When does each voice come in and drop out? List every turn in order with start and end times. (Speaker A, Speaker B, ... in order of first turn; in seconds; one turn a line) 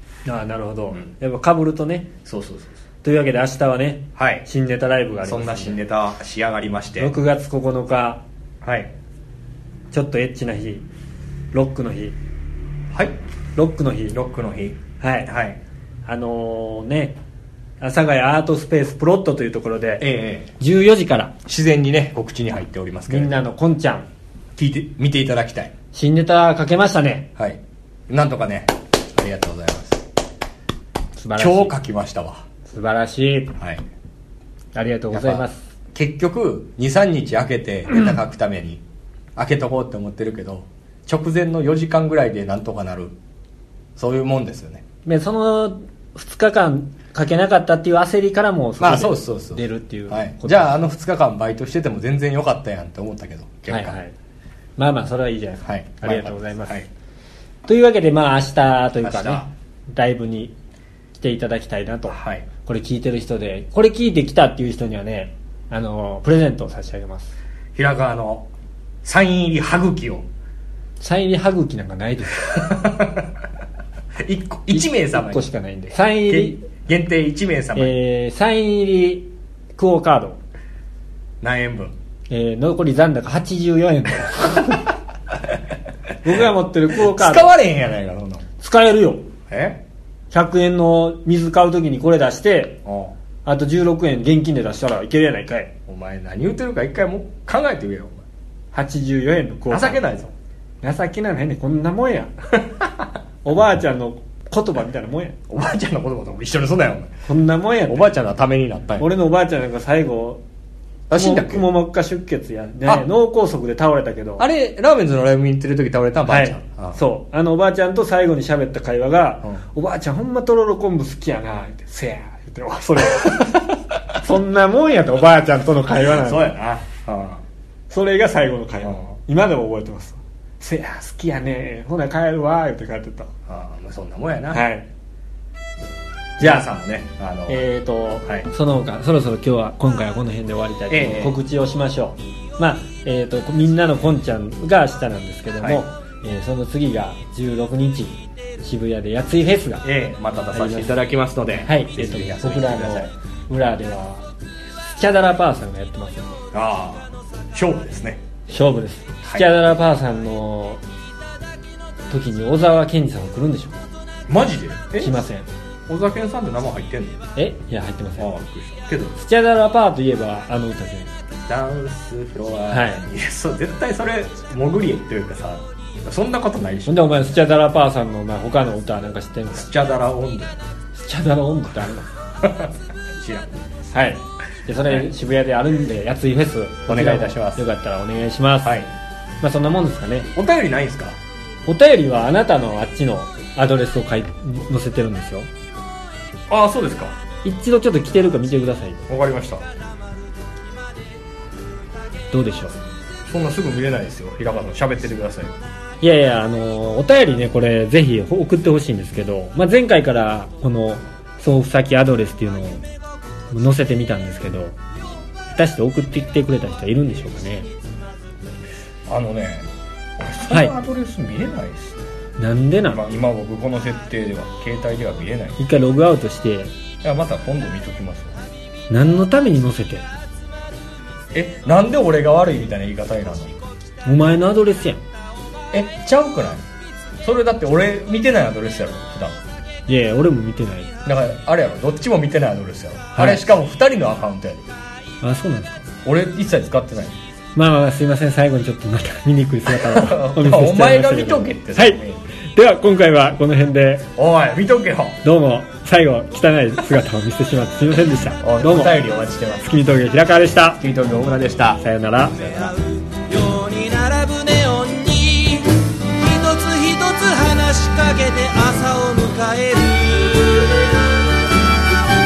Speaker A: 0.3-2.1
Speaker B: 2.2-2.8
Speaker A: 3.0-5.8
Speaker B: 4.2-4.5
Speaker B: 5.2-7.1
Speaker A: 7.0-8.2
Speaker B: 8.6-8.9
Speaker A: 9.9-10.9
Speaker A: 11.5-12.2
Speaker B: 12.9-13.2
Speaker A: 13.6-14.2
Speaker B: 14.1-15.6
Speaker A: 15.0-15.3
Speaker A: 16.1-17.2
Speaker A: 17.8-20.1
Speaker B: 20.0-20.5
Speaker A: 20.6-21.4
Speaker B: 21.5-23.4
Speaker A: 23.1-24.1
Speaker B: 24.6-25.7
Speaker A: 25.9-27.3
Speaker B: 27.4-30.0
Speaker A: 31.2-31.7
Speaker B: 31.4-32.5
Speaker A: 32.7-33.5
Speaker A: 34.8-35.6
Speaker B: 35.1-38.8
Speaker B: 39.4-43.1
Speaker B: 44.0-44.8
Speaker A: 45.0-50.8
Speaker B: 48.8-54.0
Speaker A: 53.7-54.1
Speaker A: 54.8-56.8
Speaker B: 55.7-56.9
Speaker A: 57.7-60.5
Speaker B: 59.0-59.5
Speaker A: 61.2-67.3
Speaker B: 62.1-62.5
Speaker B: 67.8-68.5
Speaker B: 69.0-70.3
Speaker A: 71.0-72.7
Speaker B: 72.4-73.3
Speaker B: 74.2-75.4
Speaker A: 74.7-76.7
Speaker B: 76.3-78.0
Speaker A: 77.8-80.4
Speaker B: 81.4-81.9
Speaker A: 82.3-84.9
Speaker A: 86.2-87.5
Speaker B: 86.3-88.5
Speaker A: 88.6-89.3
Speaker B: 89.5-89.8
Speaker A: 90.3-92.8
Speaker B: 92.9-93.2
Speaker A: 93.5-95.8
Speaker B: 95.9-98.2
Speaker A: 98.7-100.1
Speaker B: 99.7-100.3
Speaker A: 100.8-102.3
Speaker B: 102.6-103.0
Speaker A: 103.5-105.4
Speaker B: 105.5-107.1
Speaker A: 107.3-108.1
Speaker B: 107.9-109.1
Speaker A: 109.0-110.4
Speaker B: 111.1-111.7
Speaker A: 111.1-114.5
Speaker B: 114.4-117.0
Speaker A: 116.3-126.5
Speaker B: 126.0-127.4
Speaker A: 127.9-133.3
Speaker B: 128.8-129.1
Speaker B: 133.5-134.6
Speaker A: 134.5-134.9
Speaker B: 136.4-137.7
Speaker A: 136.4-136.7
Speaker A: 137.5-149.8
Speaker B: 140.9-141.4
Speaker B: 149.8-153.1
Speaker A: 150.5-151.0
Speaker A: 151.6-154.3
Speaker A: 154.8-156.3
Speaker B: 156.5-158.2
Speaker A: 158.5-160.8
Speaker B: 159.2-159.5
Speaker A: 162.1-163.8
Speaker B: 164.3-165.2
Speaker A: 165.0-165.5
Speaker B: 165.9-167.2
Speaker A: 167.3-168.3
Speaker B: 168.2-169.2
Speaker A: 169.2-171.1
Speaker B: 171.5-177.1
Speaker A: 172.7-173.1
Speaker A: 176.9-179.7
Speaker B: 179.5-180.6
Speaker A: 180.9-182.1
Speaker B: 182.4-183.6
Speaker A: 183.9-188.8
Speaker B: 184.8-185.1
Speaker B: 186.9-187.6
Speaker B: 188.6-188.9
Speaker A: 189.4-190.3
Speaker B: 190.3-191.2
Speaker A: 191.7-195.5
Speaker B: 196.5-197.2
Speaker A: 197.4-199.1
Speaker B: 199.1-199.7
Speaker A: 202.3-202.8
Speaker B: 203.3-205.5
Speaker A: 206.0-212.8
Speaker A: 213.5-214.8
Speaker A: 215.5-217.7
Speaker B: 219.1-222.1
Speaker A: 220.5-220.8
Speaker A: 222.4-223.0
Speaker B: 222.9-225.6
Speaker A: 225.6-226.7
Speaker B: 227.0-228.5
Speaker A: 228.9-230.1
Speaker B: 231.3-233.6
Speaker A: 234.1-235.0
Speaker B: 235.7-236.7
Speaker B: 237.2-239.4
Speaker A: 239.9-240.9
Speaker B: 241.1-244.7
Speaker A: 243.1-243.4
Speaker A: 245.2-245.8
Speaker B: 246.1-247.2
Speaker A: 247.6-252.0
Speaker B: 249.7-252.2
Speaker A: 252.6-254.1
Speaker B: 254.2-255.2
Speaker A: 255.2-258.9
Speaker B: 258.4-259.8
Speaker A: 259.6-260.8
Speaker B: 260.8-262.8
Speaker A: 261.8-262.4
Speaker C: 262.3-270.9